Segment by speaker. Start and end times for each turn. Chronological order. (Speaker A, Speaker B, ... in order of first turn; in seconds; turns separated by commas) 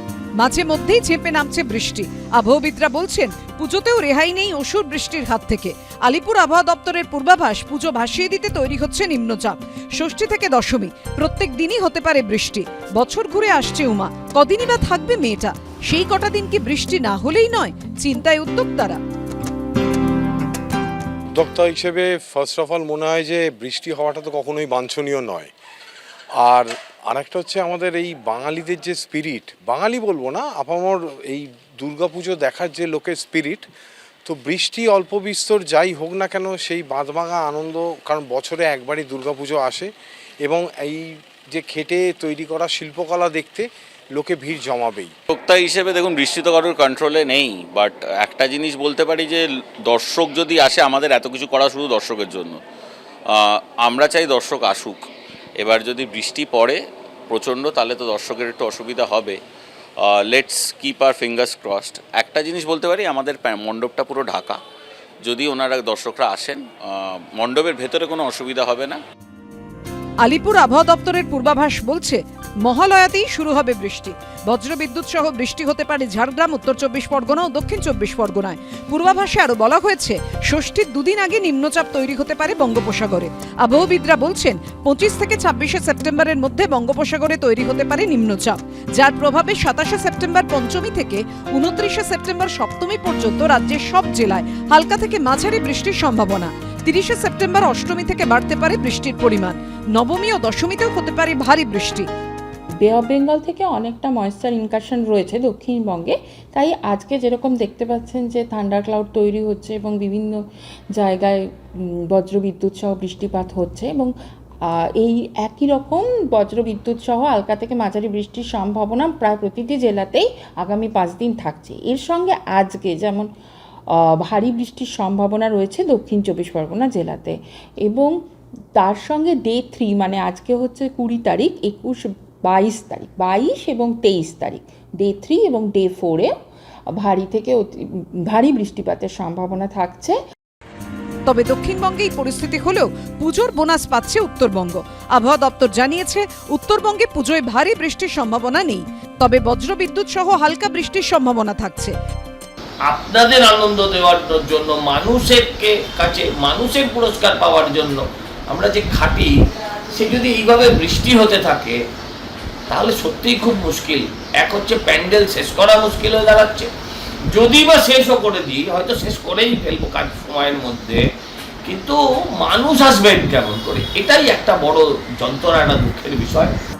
Speaker A: 0.4-19.0, Speaker B: 21.3-25.5, Speaker B: 26.3-33.6, Speaker B: 34.2-39.9, Speaker B: 40.4-45.1, Speaker C: 45.3-52.6, Speaker C: 53.3-55.0, Speaker C: 55.6-59.4, Speaker C: 60.0-64.6, Speaker C: 65.2-69.0, Speaker A: 70.2-102.1, Speaker D: 102.8-110.4, Speaker D: 110.9-114.1, Speaker D: 114.7-123.3, Speaker D: 123.9-128.1, Speaker D: 128.8-136.3, Speaker D: 136.9-140.2, Speaker A: 141.3-151.9, Speaker E: 152.8-161.8, Speaker E: 162.7-166.7, Speaker E: 167.3-171.1, Speaker E: 171.6-176.5